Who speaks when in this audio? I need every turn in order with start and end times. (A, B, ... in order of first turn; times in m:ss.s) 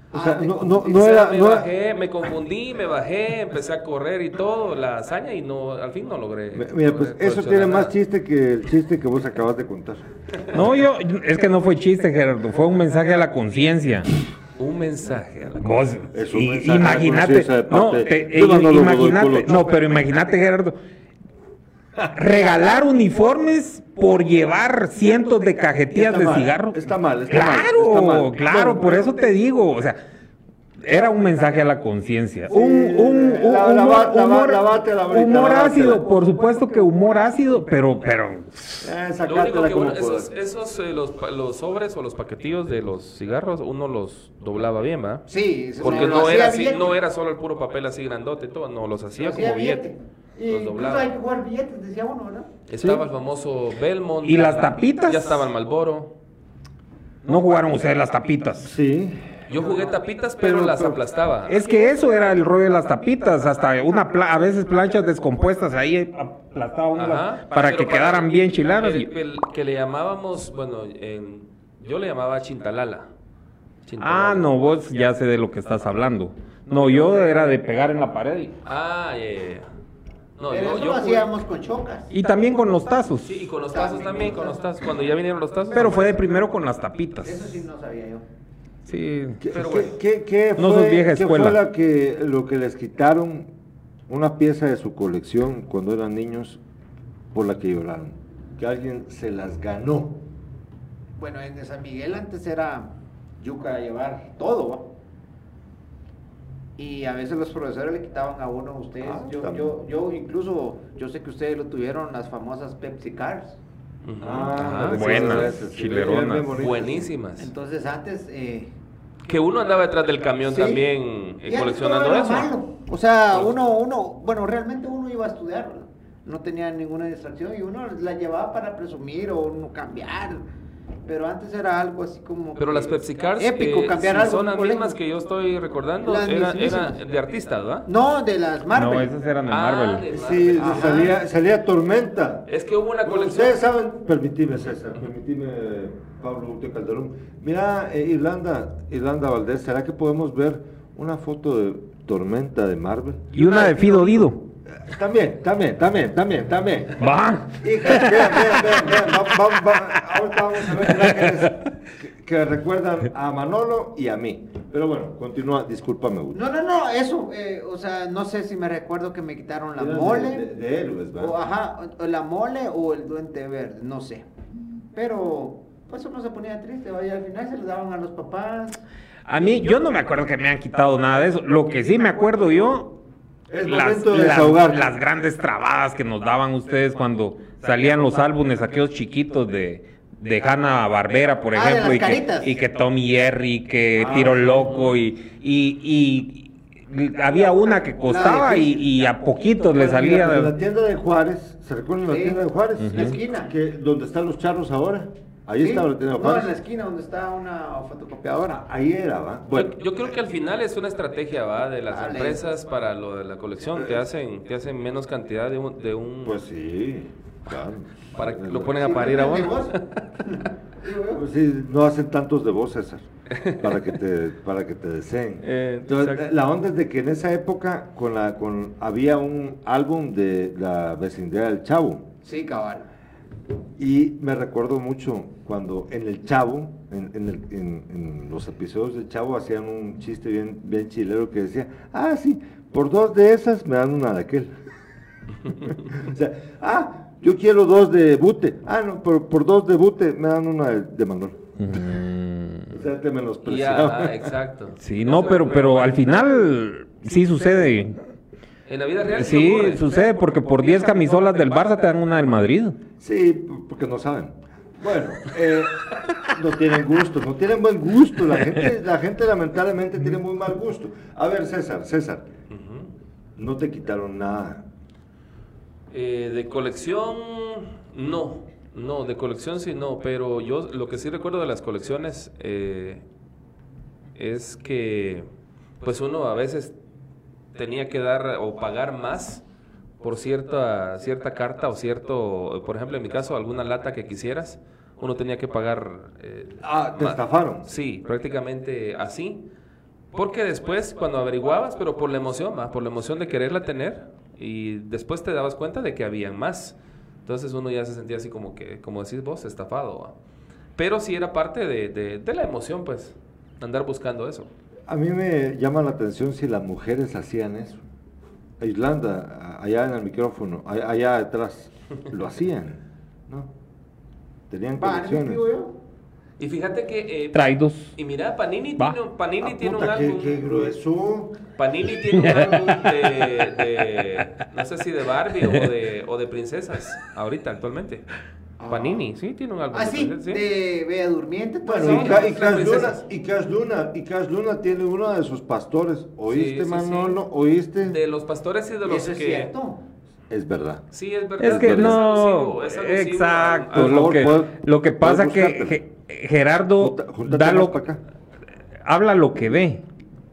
0:00.1-0:01.0 A
0:00.1-0:01.7 B
0:00.7-0:07.9 C
0:06.5-0:10.1 B
0:10.5-0:14.1 D
0:14.6-0:15.8 C
0:15.6-0:20.8 D
0:16.1-0:19.7 B
0:22.0-0:30.0 D
0:25.9-0:29.1 B
0:30.8-0:38.9 D
0:32.5-0:36.0 B
0:38.8-0:40.3 B
0:39.2-0:45.2 C
0:45.3-0:47.0 A
0:45.8-0:49.9 C
0:49.2-0:52.5 A
0:50.5-0:51.1 C
0:52.7-0:56.1 C
0:54.2-0:55.5 D
0:57.2-0:58.8 D
0:58.6-0:59.2 B
0:59.5-1:01.6 C
1:00.4-1:01.0 B
1:01.5-1:09.1 D
1:07.0-1:13.1 C
1:13.8-1:14.6 C
1:14.0-1:18.6 D
1:18.6-1:19.7 C
1:20.4-1:21.3 C
1:20.5-1:22.1 A
1:22.1-1:23.5 D
1:23.2-1:26.1 C
1:23.7-1:24.6 A
1:25.7-1:27.5 D
1:25.8-1:26.2 A
1:27.2-1:28.2 A
1:28.9-1:29.4 D
1:29.4-1:33.5 B
1:29.5-1:29.9 C
1:30.6-1:31.6 D
1:34.1-1:36.6 B
1:37.3-1:40.2 B
1:41.2-1:44.9 A
1:46.8-1:53.6 A
1:49.0-1:49.8 B
1:54.0-1:55.6 C
1:54.2-1:57.1 B
1:54.6-1:56.5 D
1:56.4-1:57.5 C
1:57.4-1:58.7 A
1:59.3-2:02.5 C
2:00.5-2:00.8 A
2:01.4-2:10.4 A
2:11.1-2:15.0 A
2:12.6-2:17.9 C
2:16.0-2:17.0 A
2:17.9-2:19.1 A
2:18.7-2:20.1 D
2:19.5-2:21.1 C
2:20.1-2:22.4 B
2:20.6-2:21.1 A
2:22.5-2:23.6 C
2:23.0-2:33.6 B
2:33.3-2:34.4 D
2:34.7-2:37.0 B
2:37.0-2:38.8 D
2:37.6-2:46.4 B
2:46.3-2:50.5 A
2:49.8-2:51.4 B
2:51.2-2:54.2 A
2:54.9-2:58.8 A
2:59.3-3:03.0 D
3:03.5-3:04.9 B
3:03.6-3:20.5 D
3:11.5-3:12.5 A
3:14.0-3:14.5 B
3:18.1-3:18.8 A
3:19.7-3:26.5 B
3:22.1-3:23.5 A
3:22.8-3:23.1 D
3:25.6-3:28.6 A
3:28.6-3:29.8 B
3:29.5-3:36.4 C
3:31.9-3:32.4 A
3:33.8-3:34.0 B
3:36.2-3:38.9 B
3:38.1-3:39.9 C
3:38.8-3:41.2 A
3:41.1-3:43.1 B
3:43.3-3:43.8 C
3:43.6-3:52.1 B
3:45.4-3:46.3 C
3:52.2-3:52.9 A
3:53.8-4:04.5 B
4:05.6-4:11.9 B
4:11.6-4:12.7 D
4:12.7-4:14.4 B
4:13.4-4:16.2 C
4:14.8-4:18.0 D
4:18.6-4:19.9 C
4:19.0-4:22.8 D
4:20.6-4:21.6 C
4:23.0-4:32.3 B
4:32.5-4:32.9 C
4:33.4-4:34.6 B
4:35.9-4:43.0 C
4:44.1-4:45.3 C
4:45.8-4:46.8 C
4:47.5-4:49.4 C
4:50.0-4:59.4 C
4:56.6-4:57.7 B
5:00.1-5:10.1 C
5:10.8-5:14.5 C
5:14.9-5:17.8 B
5:18.6-5:23.5 B
5:24.5-5:25.4 B
5:24.8-5:25.7 A
5:26.4-5:30.4 C
5:27.3-5:27.9 D
5:29.4-5:31.4 B
5:31.6-5:38.1 C
5:32.1-5:32.9 D
5:38.6-5:39.0 B
5:38.7-5:40.4 C
5:39.7-5:42.3 A
5:41.6-5:48.0 B
5:41.8-5:43.0 C
5:46.3-5:47.2 C
5:47.8-5:49.5 C
5:48.8-5:49.8 A
5:50.3-5:50.8 B
5:50.9-5:54.2 C
5:51.4-5:57.8 D
5:51.4-5:52.0 B
5:53.7-5:55.8 B
5:56.8-5:58.0 B
5:58.8-5:59.8 D